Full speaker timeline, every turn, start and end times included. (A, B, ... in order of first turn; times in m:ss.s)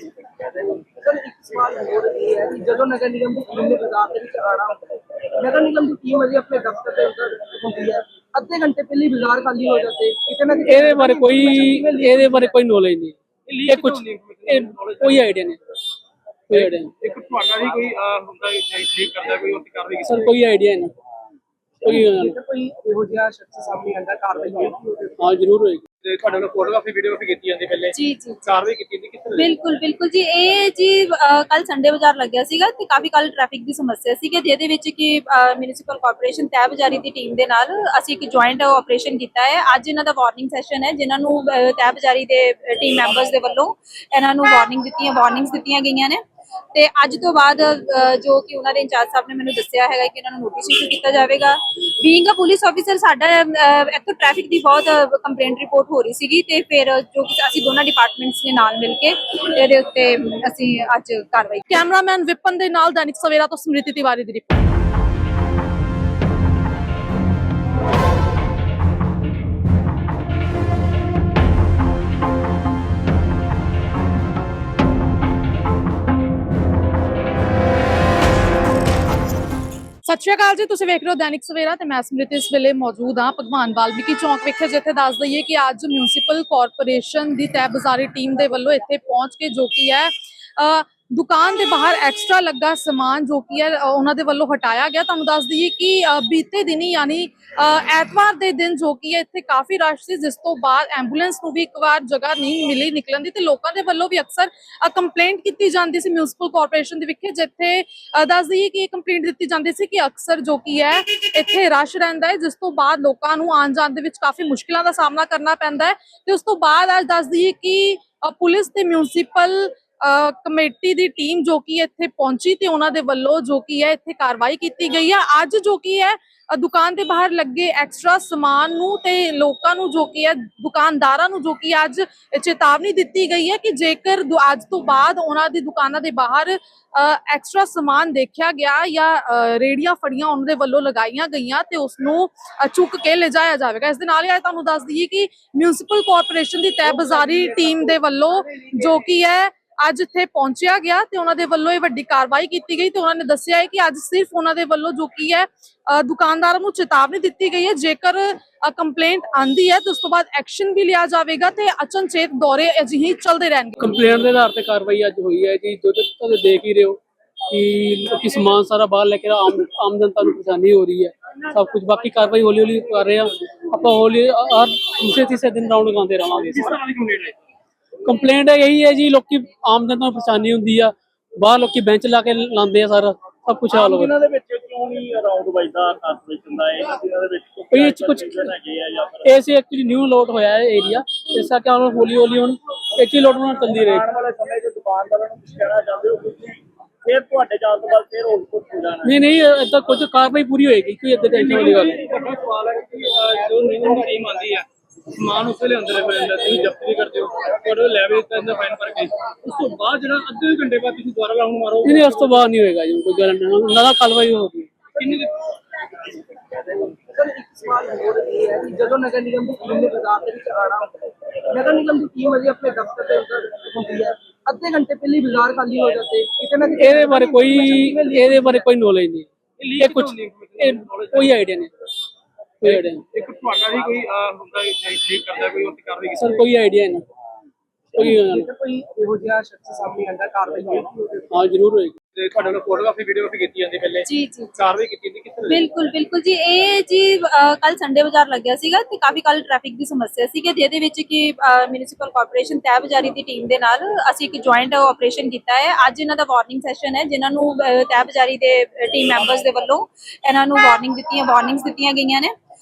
0:01.0-0:12.5 A
0:10.6-0:15.6 B
0:13.5-0:15.2 C
0:16.5-0:16.9 B
0:16.5-0:20.3 C
0:20.0-0:20.9 B
0:21.8-0:22.4 B
0:21.8-0:25.1 A
0:25.2-0:25.8 B
0:26.0-0:29.5 C
0:27.9-0:28.4 D
0:29.4-0:46.2 D
0:46.7-1:01.7 D
1:01.7-1:04.5 E
1:20.0-2:43.9 E
2:43.8-2:56.7 B
2:56.6-2:57.4 C
2:58.0-3:04.1 B
3:03.7-3:09.3 F
3:07.7-3:08.4 B
3:09.2-3:14.0 B
3:13.8-3:19.1 F
3:19.0-3:22.0 B
3:21.3-3:24.7 C
3:25.2-3:32.3 C
3:31.8-3:34.7 B
3:35.0-3:35.3 C
3:36.8-3:48.6 A
3:46.8-3:51.7 B
3:49.6-3:51.3 C
3:52.6-3:53.0 B
3:52.6-3:56.4 C
3:56.2-3:57.0 B
3:58.0-3:58.5 B
3:58.0-4:01.2 A
4:01.3-4:02.0 B
4:02.2-4:05.8 C
4:04.1-4:04.6 D
4:05.5-4:22.4 D